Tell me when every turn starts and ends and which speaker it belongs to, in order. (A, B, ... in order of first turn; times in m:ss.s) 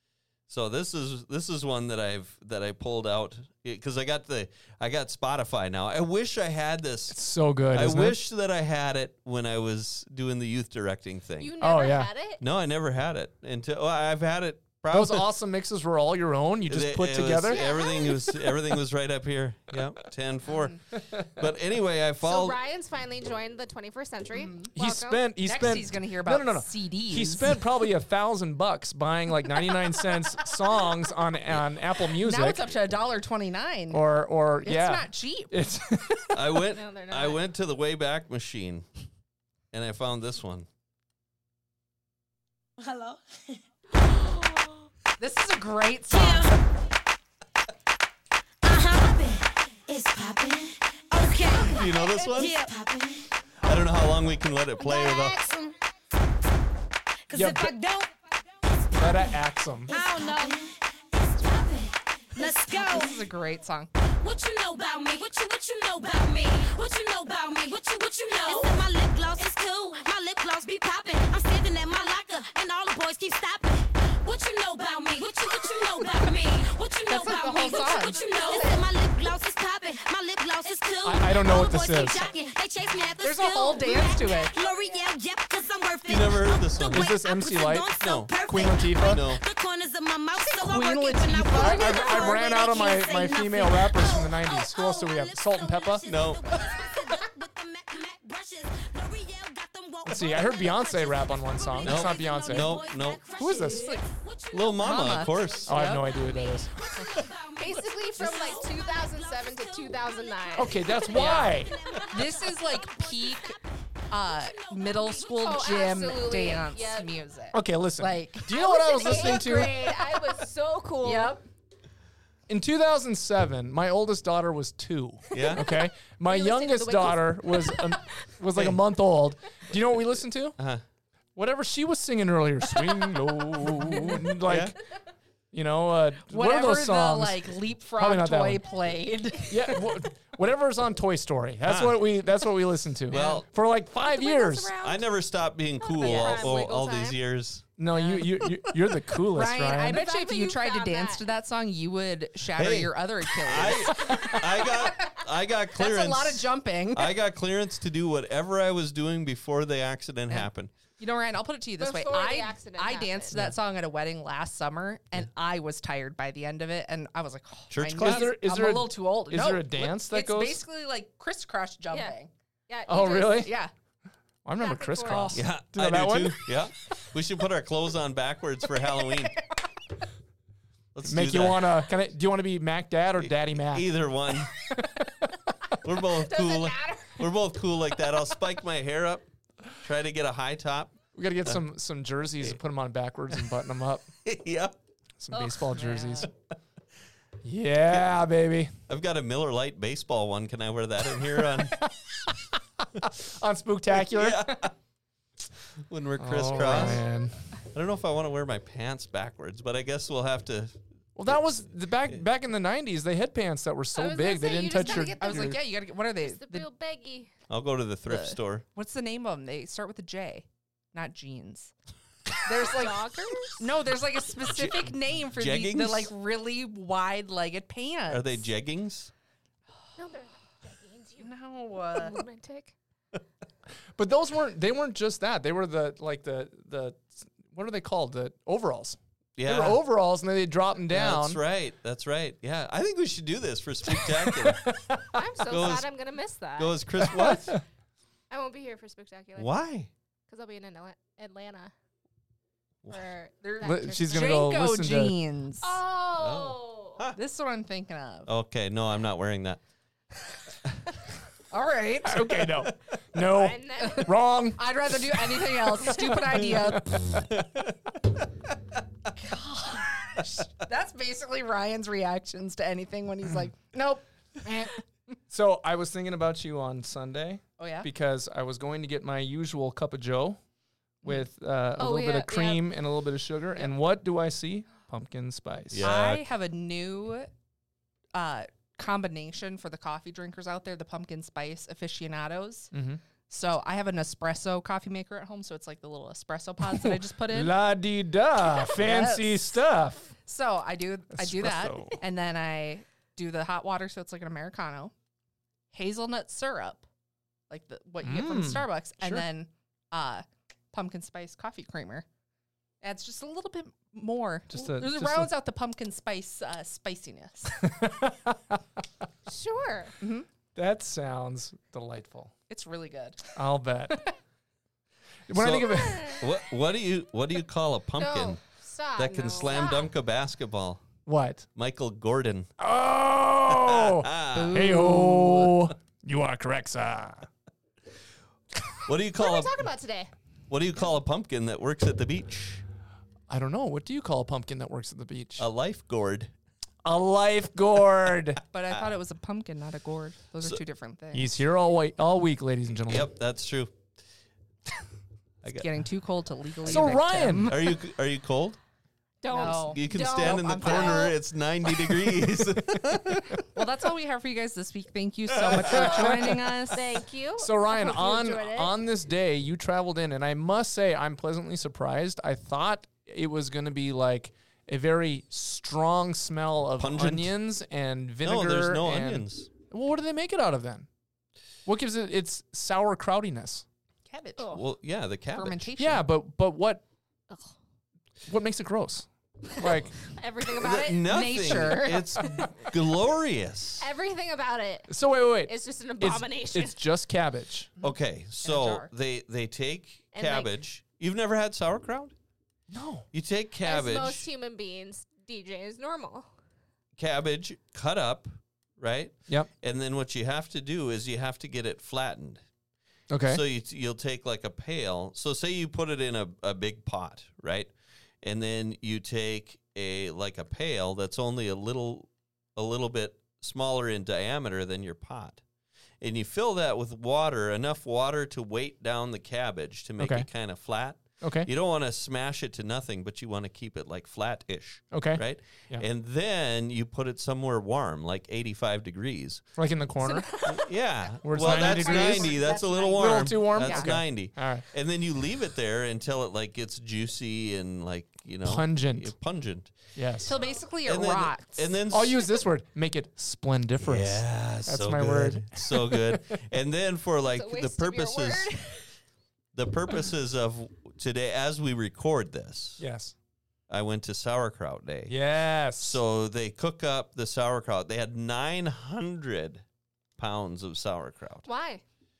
0:00.5-0:07.2 A
0:07.1-0:08.2 B
0:07.7-0:11.5 A
0:11.4-0:12.4 C
0:11.6-0:12.1 B
0:12.4-0:15.3 A
0:14.9-0:17.6 B
0:16.6-0:22.6 A
0:17.5-0:18.4 C
0:22.2-0:25.3 C
0:24.3-0:24.7 D
0:24.7-0:32.6 B
0:25.4-0:27.5 D
0:32.2-0:34.0 D
0:33.9-0:36.4 B
0:34.6-0:35.5 D
0:36.3-0:38.9 A
0:36.7-0:37.4 C
0:39.7-0:40.7 A
0:42.8-0:43.2 E
0:44.1-0:44.8 C
0:45.2-0:46.5 D
0:46.1-0:46.6 E
0:48.6-0:53.3 E
0:51.5-0:52.7 A
0:53.6-0:55.4 A
0:54.8-0:55.7 E
0:57.3-0:58.1 E
0:57.3-0:57.7 B
0:58.9-0:59.3 E
0:58.9-0:59.9 B
0:59.9-1:03.2 E
1:02.4-1:03.9 D
1:04.2-1:55.2 E
1:17.1-1:18.9 D
1:21.0-1:22.3 B
1:23.2-1:24.6 D
1:26.0-1:27.1 A
1:26.9-1:29.2 B
1:28.0-1:28.3 A
1:29.0-1:29.4 A
1:30.4-1:32.4 D
1:31.5-1:36.1 B
1:36.0-1:36.5 A
1:40.0-1:42.8 B
1:41.8-1:43.2 A
1:43.4-1:44.0 B
1:44.5-1:45.7 A
1:44.8-1:46.1 D
1:45.6-1:46.9 B
1:47.6-1:50.9 C
1:48.2-1:48.6 D
1:50.6-1:51.8 B
1:51.1-1:53.5 D
1:54.1-2:00.4 D
1:54.8-1:57.5 C
1:57.5-1:59.8 B
1:58.5-2:01.4 C
2:01.0-2:01.4 D
2:02.5-2:10.6 B
2:05.3-2:05.6 A
2:06.2-2:08.1 C
2:08.5-2:08.8 A
2:10.6-2:10.8 A
2:11.4-2:14.7 B
2:14.4-2:14.8 A
2:15.5-2:17.4 B
2:16.3-2:19.8 D
2:17.9-2:18.6 B
2:19.5-2:24.7 B
2:21.6-2:22.0 A
2:23.1-2:23.5 A
2:24.0-2:25.1 C
2:24.8-2:27.6 A
2:25.8-2:27.2 C
2:26.0-2:26.5 D
2:27.8-2:30.0 B
2:28.0-2:28.3 D
2:29.3-2:35.1 D
2:29.9-2:31.3 C
2:32.5-2:40.7 A
2:34.0-2:34.2 B
2:35.7-2:37.1 D
2:40.3-2:52.3 D
2:41.8-2:43.4 C
2:43.3-2:43.6 B
2:47.7-2:48.4 A
2:48.0-2:50.6 B
2:51.9-2:52.2 C
2:52.7-2:53.5 C
2:52.9-2:53.6 B
2:53.3-2:53.7 D
2:54.4-2:56.5 B
2:54.6-2:55.3 C
2:55.0-2:55.4 D
2:55.3-2:59.4 A
2:58.8-2:59.3 D
3:00.9-3:01.7 A
3:01.0-3:05.0 B
3:03.2-3:04.5 A
3:05.8-3:11.6 A
3:06.1-3:07.2 C
3:11.1-3:14.1 B
3:14.2-3:14.7 A
3:15.2-3:16.3 B
3:15.3-3:15.8 C
3:15.7-3:16.3 D
3:17.4-3:18.7 B
3:17.9-3:18.2 A
3:18.9-3:21.8 A
3:21.4-3:22.3 B
3:23.0-3:24.7 B
3:23.9-3:24.7 A
3:25.9-3:27.0 A
3:26.2-3:27.4 B
3:26.6-3:27.0 C
3:27.7-3:32.2 A
3:31.2-3:35.6 B
3:33.9-3:35.6 C
3:34.7-3:36.7 D
3:36.2-3:37.3 C
3:37.5-3:38.6 A
3:38.0-3:41.7 D
3:42.4-3:43.0 D
3:42.5-3:43.6 C
3:43.6-3:48.4 D
3:44.4-3:46.1 A
3:48.1-3:49.1 A
3:50.0-3:51.3 C
3:51.2-3:52.2 D
3:51.8-3:52.7 C
3:54.0-4:01.4 B
3:59.4-3:59.8 A
4:00.9-4:04.7 A
4:03.9-4:05.2 B
4:05.1-4:06.8 C
4:05.5-4:05.9 A
4:06.6-4:07.6 A
4:07.0-4:07.6 B
4:08.3-4:09.5 C
4:09.4-4:09.9 A
4:10.3-4:11.7 C
4:12.9-4:14.4 C
4:13.4-4:15.8 D
4:13.6-4:15.1 B
4:15.6-4:17.0 C
4:16.2-4:17.2 A
4:17.1-4:18.3 D
4:18.2-4:19.6 A
4:21.5-4:22.5 D
4:22.0-4:27.2 B
4:23.2-4:24.1 C
4:23.8-4:27.0 D
4:25.8-4:26.2 C
4:27.3-4:27.6 A
4:29.2-4:34.8 D
4:35.3-4:40.4 B
4:37.6-4:37.9 D
4:41.0-4:46.0 B
4:41.8-4:42.6 C
4:45.7-4:46.2 A
4:45.8-4:47.3 D
4:48.1-4:52.7 D
4:52.7-4:53.0 B
4:53.3-4:57.5 D
4:56.6-5:00.1 B
4:58.6-4:59.6 D
5:00.2-5:04.9 D
5:01.1-5:02.0 B
5:05.7-5:06.8 D
5:07.5-5:12.0 D
5:08.0-5:09.2 B
5:12.8-5:17.5 D
5:14.5-5:15.3 B
5:17.6-5:18.6 B
5:19.2-5:19.9 C
5:20.0-5:20.2 D
5:20.5-5:22.3 B
5:22.5-5:23.3 D
5:23.3-5:24.0 B
5:25.3-5:26.2 B
5:25.3-5:28.4 A
5:25.7-5:26.2 C
5:28.0-5:29.9 C
5:29.0-5:30.8 A
5:31.0-5:31.5 B
5:31.5-5:32.5 A
5:32.6-5:37.3 B
5:33.5-5:34.6 A
5:34.3-5:35.5 D
5:38.8-5:39.6 A
5:39.1-5:40.1 C
5:40.5-5:42.6 A
5:43.3-5:45.5 B
5:45.4-5:46.3 A
5:46.8-5:48.4 B
5:48.5-5:51.4 D
5:51.1-5:53.1 B
5:52.9-5:53.7 A
5:55.4-5:55.7 A
5:55.6-5:57.6 D
5:56.6-5:58.6 A
5:56.6-5:57.6 B
5:59.2-6:01.2 C
5:59.3-6:01.1 D
5:59.4-6:03.2 A
6:02.0-6:03.3 B
6:03.5-6:06.8 D
6:05.6-6:06.4 B
6:06.7-6:08.8 C
6:07.4-6:20.9 B
6:16.8-6:17.4 A
6:18.2-6:19.5 A
6:21.6-6:23.6 B
6:24.1-6:24.6 D
6:24.5-6:25.7 A
6:25.3-6:26.1 D
6:25.8-6:26.8 B
6:27.3-6:27.5 C
6:28.3-6:30.0 B
6:29.6-6:31.6 C
6:30.5-6:33.9 A
6:31.0-6:32.1 D
6:32.2-6:32.5 C
6:33.8-6:36.8 C
6:34.9-6:37.7 B
6:37.8-6:38.9 D
6:37.8-6:42.1 A
6:40.1-6:40.6 C
6:42.7-6:43.0 B
6:43.1-6:44.3 A
6:43.6-6:46.3 C
6:47.0-6:52.4 A
6:53.1-6:53.4 B
6:53.2-7:05.4 A
7:06.0-7:19.4 A
7:10.0-7:10.3 B
7:11.2-7:11.5 B
7:14.9-7:15.8 B
7:19.5-7:20.3 B
7:20.0-7:20.7 C
7:20.4-7:29.7 A
7:21.2-7:22.4 B
7:21.3-7:24.0 D
7:22.9-7:24.6 B
7:28.4-7:29.1 B
7:29.9-7:30.3 B
7:30.2-7:31.7 D
7:30.3-7:30.6 C
7:30.8-7:32.2 A
7:31.9-7:36.4 B
7:33.8-7:38.5 A
7:37.2-7:38.9 C
7:39.5-7:42.8 A
7:42.8-7:43.1 B
7:43.7-7:45.2 A
7:45.1-7:46.0 B
7:45.8-7:49.6 A
7:50.2-7:51.5 A
7:51.4-7:51.8 C